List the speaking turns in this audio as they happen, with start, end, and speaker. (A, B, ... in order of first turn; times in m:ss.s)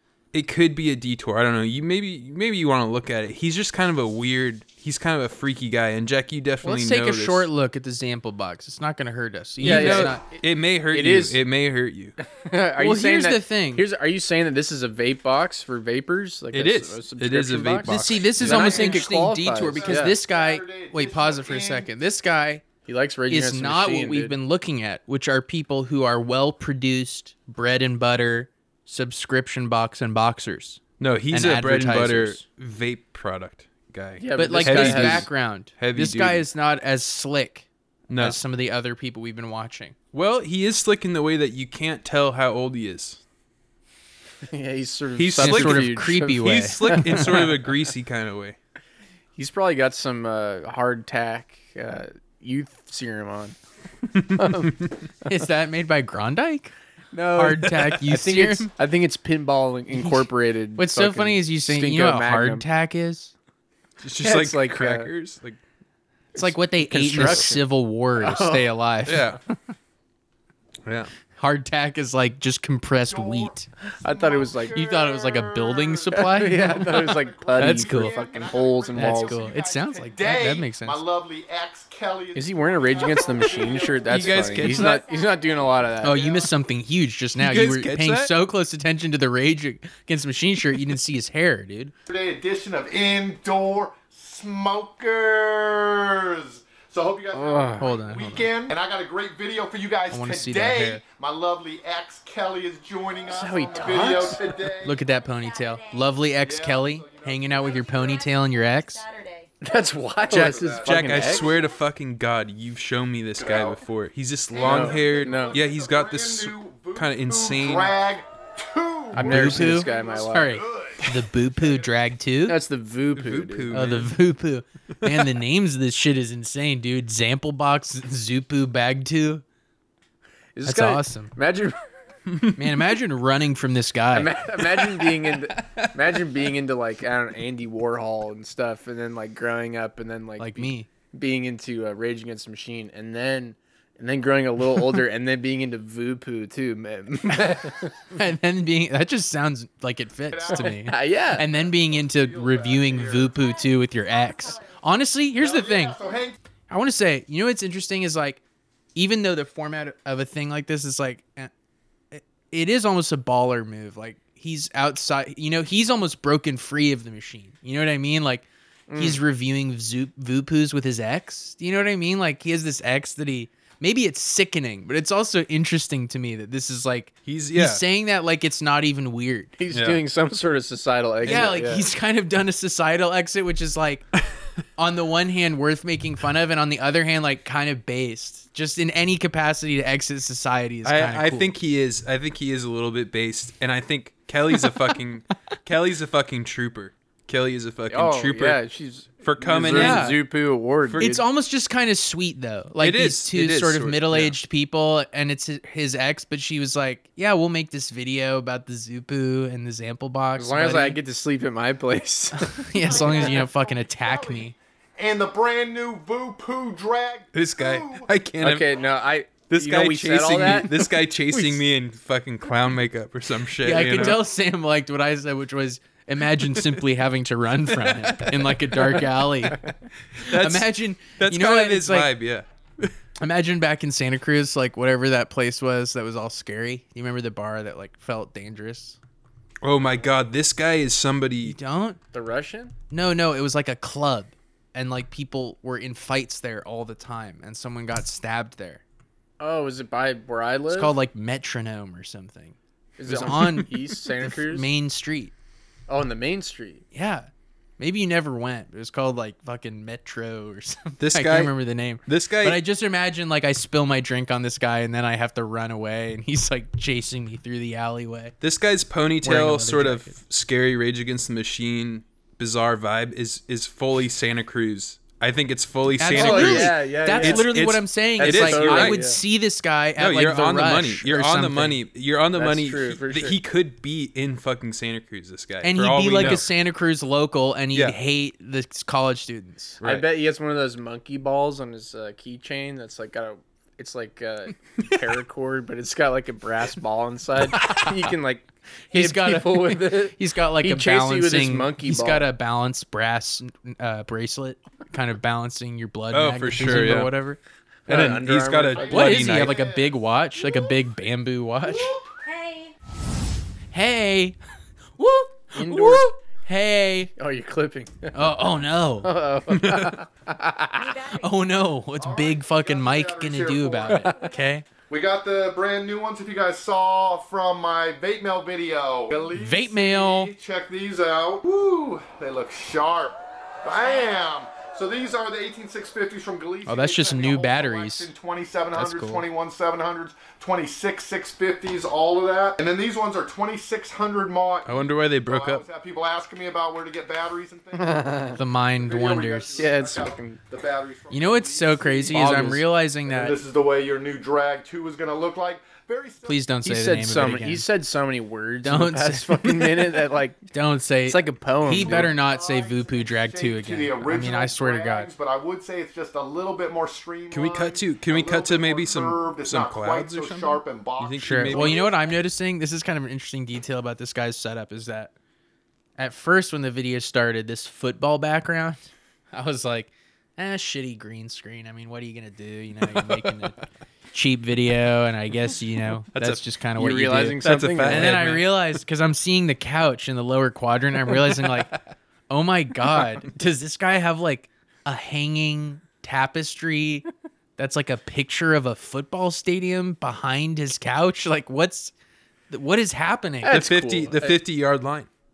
0:00.3-0:07.5 A
0:06.6-0:10.3 B
0:09.6-0:12.2 A
0:09.6-0:11.4 C
0:12.4-0:20.2 C
0:12.8-0:13.8 B
0:16.5-0:18.8 A
0:17.8-0:22.7 B
0:18.6-0:21.9 D
0:22.8-0:24.4 C
0:23.3-0:32.4 B
0:31.0-0:36.5 A
0:34.2-0:35.3 C
0:34.4-0:40.0 B
0:38.1-0:38.4 A
0:40.1-0:43.2 A
0:44.5-0:47.5 C
0:45.2-0:48.6 A
0:45.4-0:47.2 B
0:49.4-0:53.6 C
0:54.3-0:54.7 A
0:54.4-0:54.7 C
0:55.2-0:56.7 B
0:57.1-1:02.6 C
0:57.3-0:58.7 B
0:59.9-1:03.3 B
1:04.0-1:05.6 A
1:04.2-1:05.1 C
1:06.4-1:08.7 C
1:06.4-1:09.4 B
1:07.2-1:07.4 A
1:09.1-1:09.4 A
1:10.8-1:11.1 A
1:11.4-1:13.7 B
1:13.1-1:24.6 D
1:14.0-1:14.8 C
1:14.7-1:16.9 B
1:16.1-1:19.4 C
1:17.6-1:18.2 B
1:18.9-1:21.0 B
1:22.4-1:26.4 C
1:24.1-1:25.0 A
1:24.7-1:26.0 E
1:26.0-1:31.9 B
1:26.0-1:26.5 D
1:27.4-1:28.3 A
1:32.1-1:45.0 D
1:37.3-1:38.0 C
1:37.8-1:38.5 B
1:40.1-1:41.0 B
1:43.3-1:44.5 C
1:44.8-1:49.0 B
1:44.9-1:46.3 E
1:46.4-1:48.2 D
1:47.7-1:49.5 E
1:49.6-1:51.5 C
1:50.2-1:51.6 D
1:50.3-1:58.0 A
1:53.4-1:53.8 D
1:54.5-2:01.9 D
1:54.6-1:55.6 C
1:59.2-2:00.6 C
1:59.2-2:02.6 B
1:59.3-1:59.6 A
2:02.5-2:03.8 C
2:03.1-2:04.2 A
2:03.7-2:09.4 B
2:10.6-2:11.8 C
2:10.6-2:11.3 B
2:12.6-2:14.3 B
2:14.1-2:27.9 C
2:20.4-2:20.9 B
2:28.2-2:36.0 B
2:30.3-2:33.4 D
2:30.5-2:31.5 C
2:33.3-2:35.0 E
2:35.4-2:36.4 D
2:36.7-2:38.4 B
2:39.0-2:41.5 B
2:42.1-2:59.6 B
2:48.9-2:49.2 C
2:57.3-2:57.8 A
2:59.6-3:01.9 C
2:59.7-3:00.0 A
3:01.2-3:01.6 A
3:01.2-3:04.1 B
3:04.8-3:11.5 B
3:10.8-3:18.6 A
3:17.9-3:21.2 C
3:19.2-3:20.2 A
3:19.7-3:20.2 B
3:20.8-3:21.2 A
3:21.0-3:31.0 B
3:22.8-3:24.4 A
3:30.4-3:33.4 C
3:32.4-3:34.6 B
3:32.8-3:38.1 D
3:37.3-3:38.9 A
3:38.4-3:41.6 C
3:39.5-3:44.2 A
3:43.6-3:49.6 B
3:50.2-3:52.9 A
3:50.3-3:52.2 B
3:53.2-3:59.0 B
3:59.6-4:01.6 A
4:01.4-4:02.0 B
4:02.1-4:02.7 C
4:02.9-4:08.8 B
4:09.4-4:11.0 C
4:10.7-4:15.3 B
4:13.0-4:14.7 C
4:15.9-4:16.8 C
4:16.9-4:28.3 B
4:21.0-4:22.6 A
4:28.4-4:39.1 A
4:29.2-4:30.2 B
4:36.0-4:41.8 B
4:36.1-4:37.7 C
4:38.2-4:39.2 C
4:40.0-4:46.5 A
4:42.3-4:43.4 C
4:45.6-4:49.8 B
4:46.2-4:46.5 C
4:49.8-4:50.1 A
4:49.8-5:02.3 C
4:58.9-5:07.4 B
5:06.1-5:07.2 A
5:07.9-5:09.5 C
5:07.9-5:09.6 A
5:08.7-5:10.8 D
5:08.8-5:11.9 B
5:11.6-5:12.1 D
5:12.2-5:12.7 E
5:13.7-5:14.4 B
5:15.0-5:17.1 B
5:15.5-5:16.1 C
5:17.2-5:18.4 C
5:18.1-5:19.1 B
5:19.0-5:21.0 C
5:19.5-5:20.0 A
5:20.8-5:21.7 E
5:21.2-5:24.7 B
5:22.0-5:24.0 D
5:23.9-5:24.3 C
5:24.9-5:52.5 D
5:29.3-5:30.3 B
5:36.7-5:38.1 B
5:38.8-5:39.2 B
5:44.7-5:45.6 A
5:47.8-5:48.4 C
5:48.4-5:49.7 B
5:49.6-5:50.4 C
5:51.1-5:53.4 B
5:52.1-5:52.6 C
5:53.1-5:56.4 D
5:56.2-5:57.7 B
5:56.6-6:00.4 C
5:58.6-5:59.6 B
6:00.5-6:05.1 B
6:01.0-6:02.1 C
6:01.8-6:12.1 D
6:07.3-6:11.9 A
6:11.2-6:15.1 B
6:16.0-6:23.6 B
6:24.1-6:31.7 B
6:26.1-6:26.4 A
6:26.8-6:28.2 C
6:27.1-6:28.5 A
6:32.3-6:37.1 B
6:37.6-6:41.9 B
6:42.5-6:43.6 B
6:43.4-6:44.4 C
6:43.4-6:45.1 A